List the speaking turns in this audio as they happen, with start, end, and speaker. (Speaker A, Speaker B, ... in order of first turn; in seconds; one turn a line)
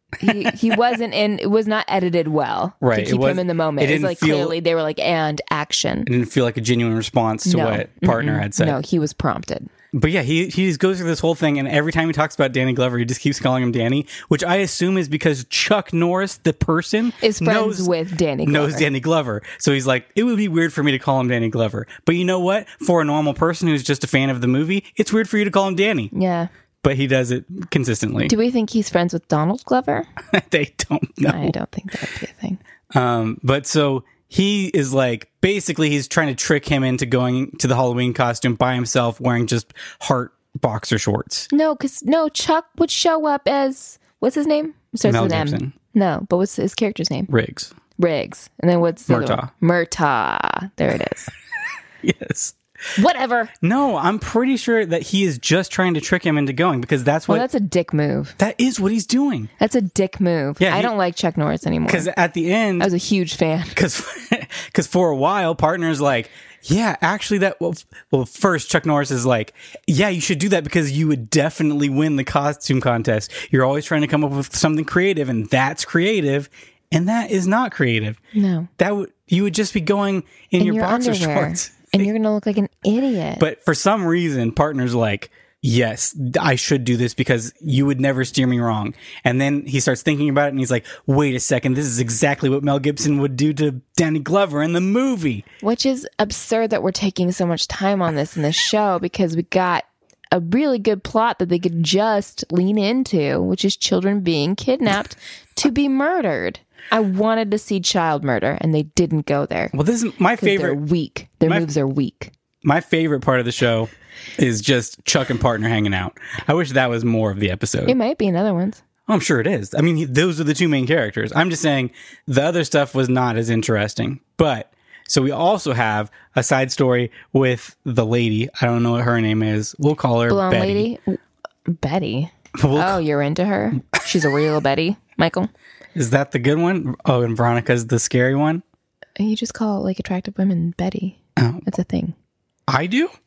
Speaker A: 0.2-6.1
Speaker B: 2.8-4.6
Speaker B: 6.1-8.8
Speaker A: 7.5-9.7
Speaker B: 9.9-17.9
Speaker A: 17.2-18.9
Speaker B: 18.4-26.1
Speaker A: 26.1-26.5
Speaker B: 26.8-28.3
Speaker A: 28.3-30.1
Speaker B: 30.3-31.5
Speaker A: 31.3-32.6
Speaker B: 32.9-41.5
Speaker A: 41.5-47.3
Speaker B: 45.0-45.8
Speaker B: 47.3-47.7
Speaker A: 48.0-51.3
Speaker B: 49.1-49.5
Speaker B: 52.0-52.6
Speaker A: 53.0-53.5
Speaker B: 53.6-57.5
Speaker A: 57.3-58.4
Speaker B: 58.4-59.5
Speaker A: 59.6-62.1
Speaker B: 60.6-60.9
Speaker B: 61.9-62.9
Speaker A: 62.8-63.8
Speaker B: 63.8-78.2
Speaker A: 78.3-78.7
Speaker B: 78.8-82.1
Speaker A: 80.6-83.4
Speaker B: 83.4-95.5
Speaker A: 95.6-109.7
Speaker B: 109.7-110.8
Speaker A: 110.4-112.3
Speaker B: 112.6-118.0
Speaker A: 117.9-118.8
Speaker B: 119.1-130.9
Speaker A: 130.3-135.5
Speaker B: 132.6-133.0
Speaker B: 135.9-138.6
Speaker A: 139.2-142.1
Speaker B: 141.4-141.6
Speaker B: 142.7-143.1